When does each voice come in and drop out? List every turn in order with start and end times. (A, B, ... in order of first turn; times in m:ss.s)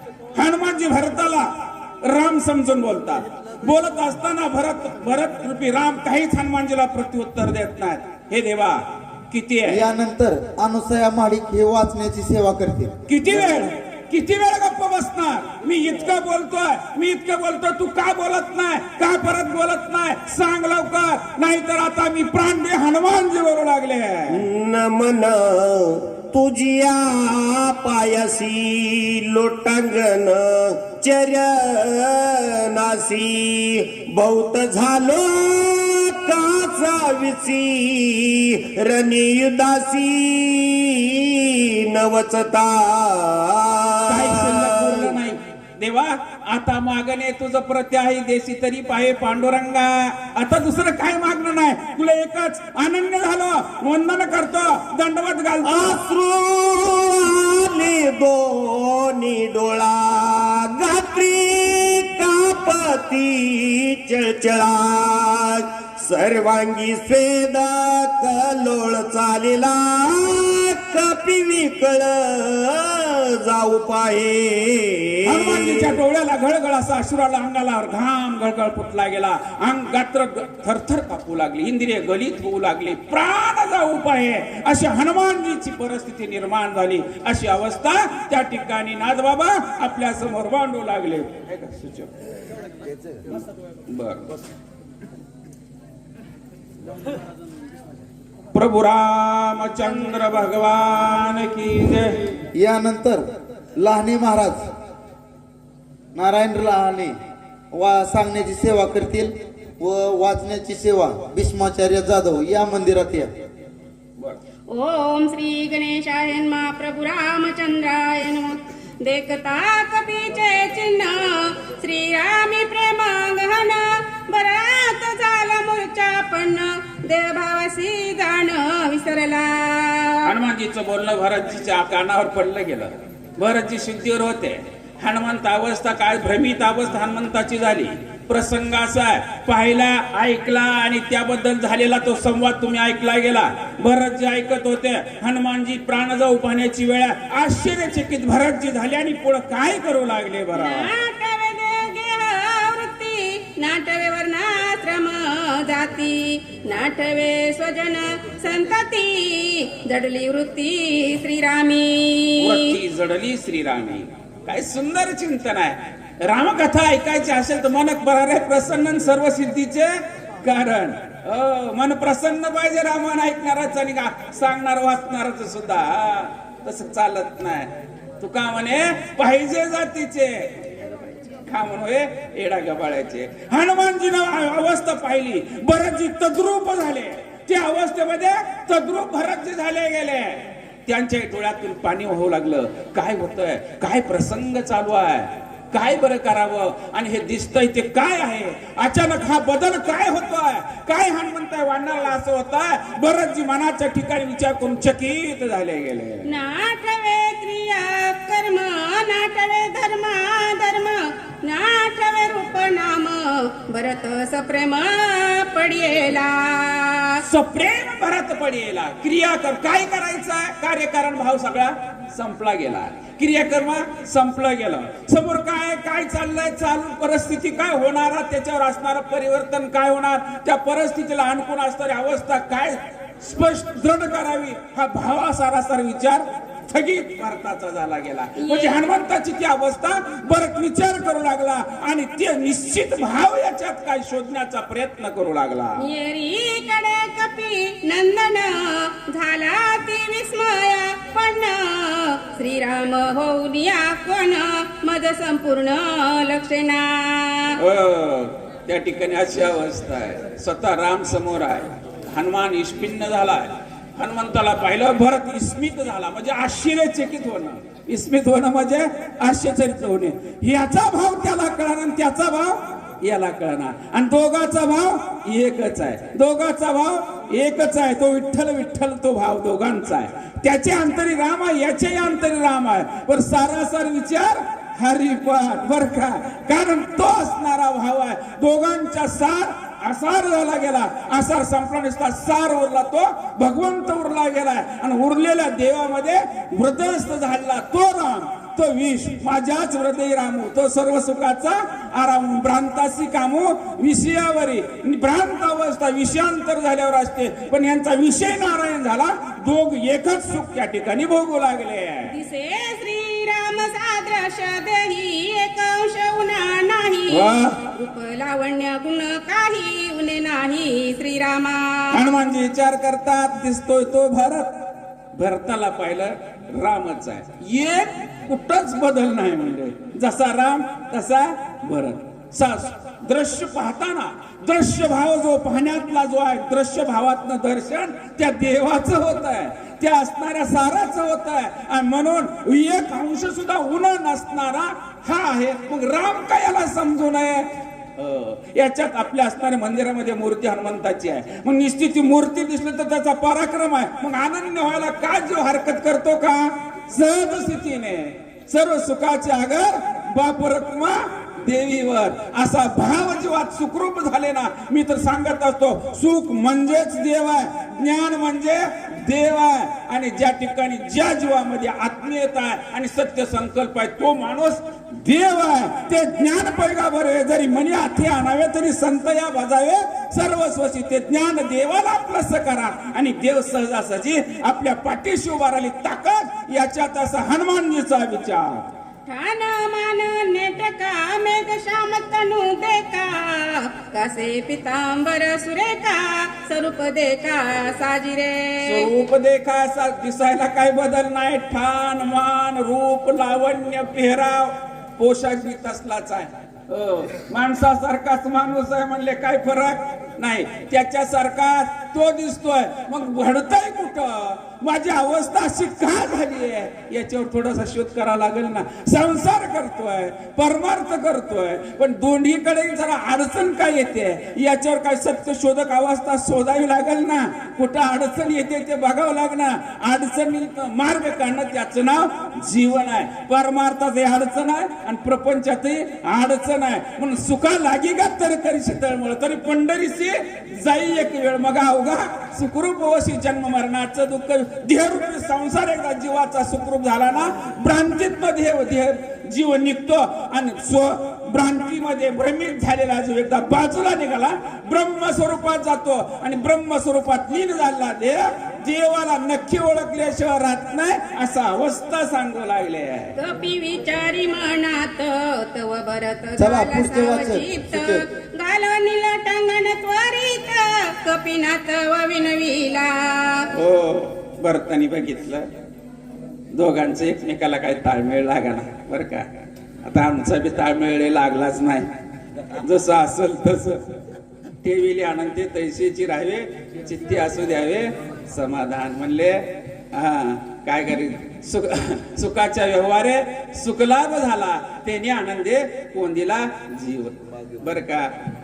0:00.4-0:01.5 A
0:02.0-0:09.9 A
0:09.7-0:12.9 B
0:13.1-0:24.4 A
0:24.3-0:45.2 C
0:44.1-0:56.0 A
0:55.6-1:16.0 C
1:15.2-1:32.1 A
1:33.3-1:34.3 A
1:38.5-1:42.2 A
1:42.6-1:43.2 B
1:43.8-1:44.6 B
1:46.2-1:47.2 B
1:47.7-1:53.3 B
1:54.7-2:10.3 D
2:10.3-2:30.9 A
2:30.6-2:42.7 D
2:42.4-2:49.9 A
2:50.4-3:00.5 A
3:01.5-3:26.3 A
3:26.3-3:37.2 D
3:37.2-4:05.8 A
3:58.4-3:58.8 D
4:05.8-4:17.6 D
4:17.6-5:12.1 A
5:12.1-5:22.0 D
5:17.1-5:17.6 A
5:21.9-5:24.5 A
5:25.2-6:28.7 A
6:29.1-6:38.9 D
6:38.6-7:43.2 A
7:43.2-7:53.5 D
7:46.4-7:48.0 B
7:53.5-7:55.5 A
7:56.5-7:59.3 A
7:59.8-8:01.9 A
8:02.6-8:03.8 A
8:04.6-8:18.1 A